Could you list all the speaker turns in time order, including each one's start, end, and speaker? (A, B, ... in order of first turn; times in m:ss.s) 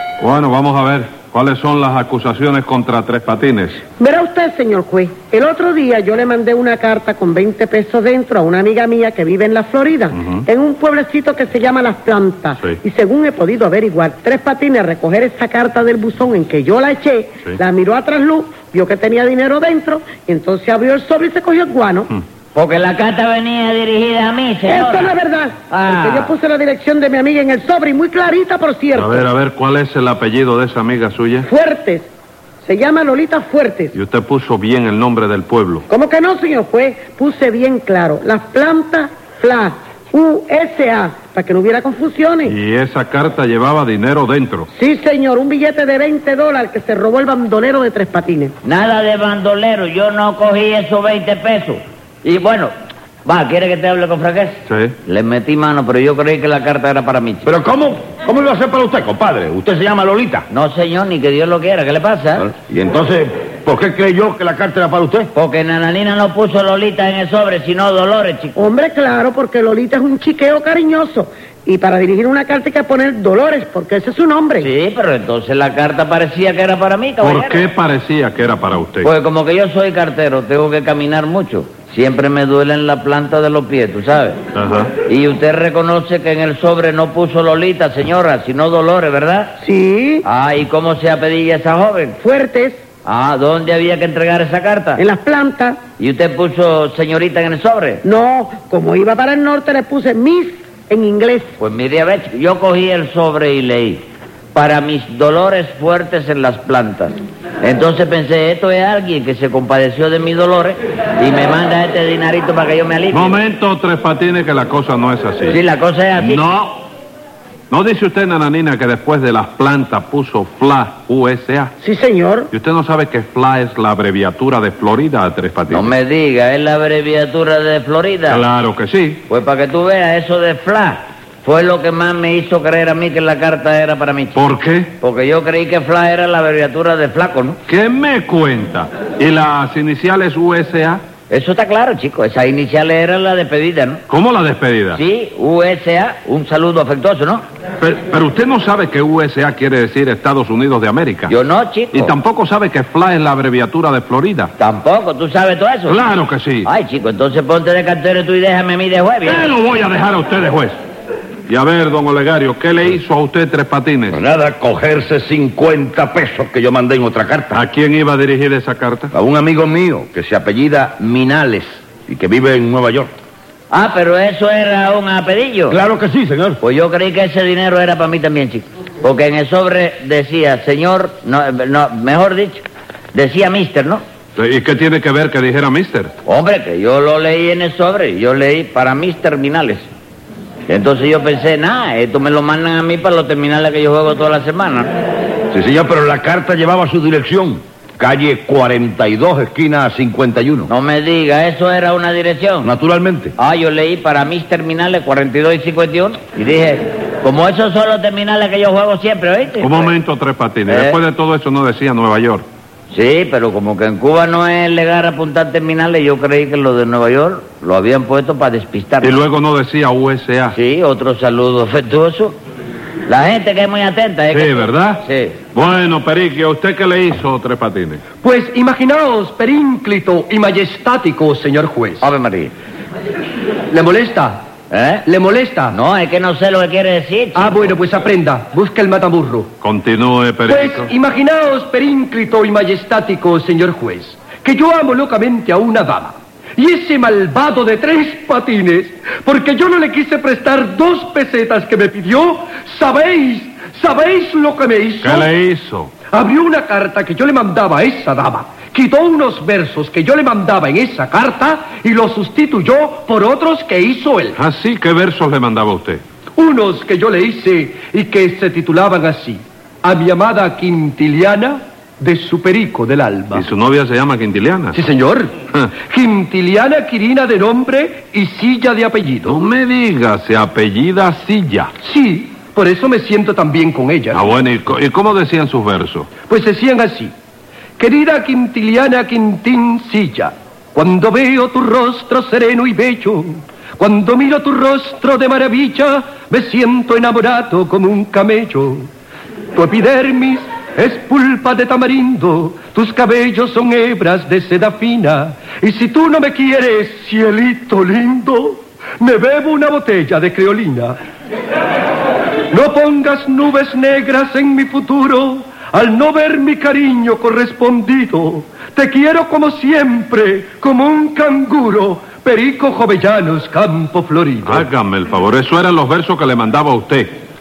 0:00.2-0:03.8 A
0:04.0-0:22.1 B
0:22.5-0:25.1 C
0:24.7-0:29.2 B
0:25.7-0:26.3 C
0:28.9-0:31.5 A
0:31.4-0:32.1 B
0:32.6-0:33.9 B
0:33.9-0:35.8 A
0:35.9-0:42.5 B
0:42.4-0:44.7 A
0:44.7-0:48.5 B
0:48.6-0:52.7 C
0:53.2-0:57.5 C
0:54.7-0:54.9 A
0:57.4-1:00.4 D
1:00.5-1:02.4 C
1:02.4-1:05.3 D
1:05.3-1:08.7 C
1:08.6-1:14.7 B
1:14.6-1:17.6 C
1:17.2-1:19.1 A
1:19.0-1:24.4 C
1:24.5-1:24.9 A
1:25.0-1:29.6 C
1:29.6-1:30.2 B
1:30.2-1:32.2 C
1:32.2-1:32.8 B
1:33.0-1:35.0 C
1:35.0-1:35.8 B
1:36.0-1:38.0 C
1:38.0-1:41.5 B
1:41.6-1:53.4 C
1:53.1-1:55.6 A
1:55.5-1:56.4 C
1:56.2-1:56.8 A
1:57.7-2:01.7 A
2:01.8-2:02.5 B
2:02.5-2:05.9 A
2:05.7-2:08.4 C
2:08.3-2:09.2 A
2:09.3-2:17.6 C
2:14.3-2:14.9 A
2:17.7-2:21.0 A
2:21.3-2:24.0 C
2:24.1-2:25.0 A
2:24.9-2:27.4 C
2:27.8-2:31.3 A
2:31.3-2:32.1 C
2:31.9-2:34.5 A
2:34.6-2:36.0 C
2:35.9-2:36.7 A
2:36.6-2:39.5 C
2:39.2-2:40.8 A
2:41.5-2:44.2 A
2:44.1-2:47.6 D
2:47.5-2:49.1 A
2:49.1-2:53.1 D
2:53.7-2:55.8 C
2:55.7-2:56.6 D
2:56.6-3:04.0 C
3:04.4-3:06.1 A
3:06.2-3:09.9 C
3:10.7-3:14.9 C
3:15.5-3:20.7 D
3:20.7-3:22.7 C
3:22.6-3:23.3 D
3:23.4-3:29.8 C
3:29.6-3:32.4 A
3:30.7-3:31.0 C
3:32.9-3:39.2 C
3:39.0-3:40.6 A
3:40.5-3:42.4 C
3:43.0-3:45.4 C
3:44.3-3:48.0 A
3:48.2-3:52.1 E
3:52.0-3:52.5 C
3:53.7-3:54.4 E
3:54.7-3:55.0 C
3:55.1-3:55.7 E
3:55.7-3:57.8 C
3:57.4-3:59.5 E
3:59.6-4:00.9 A
4:00.4-4:15.3 E
4:15.0-4:15.9 A
4:16.1-4:24.4 E
4:24.3-4:26.0 A
4:26.4-4:33.5 E
4:33.3-4:34.8 A
4:34.7-4:35.3 E
4:35.9-4:39.4 E
4:39.2-4:41.7 A
4:41.8-4:44.2 E
4:44.1-4:46.1 A
4:46.2-4:47.1 E
4:47.8-4:58.9 E
4:59.5-5:11.0 E
5:12.5-5:24.7 E
5:24.4-5:27.1 A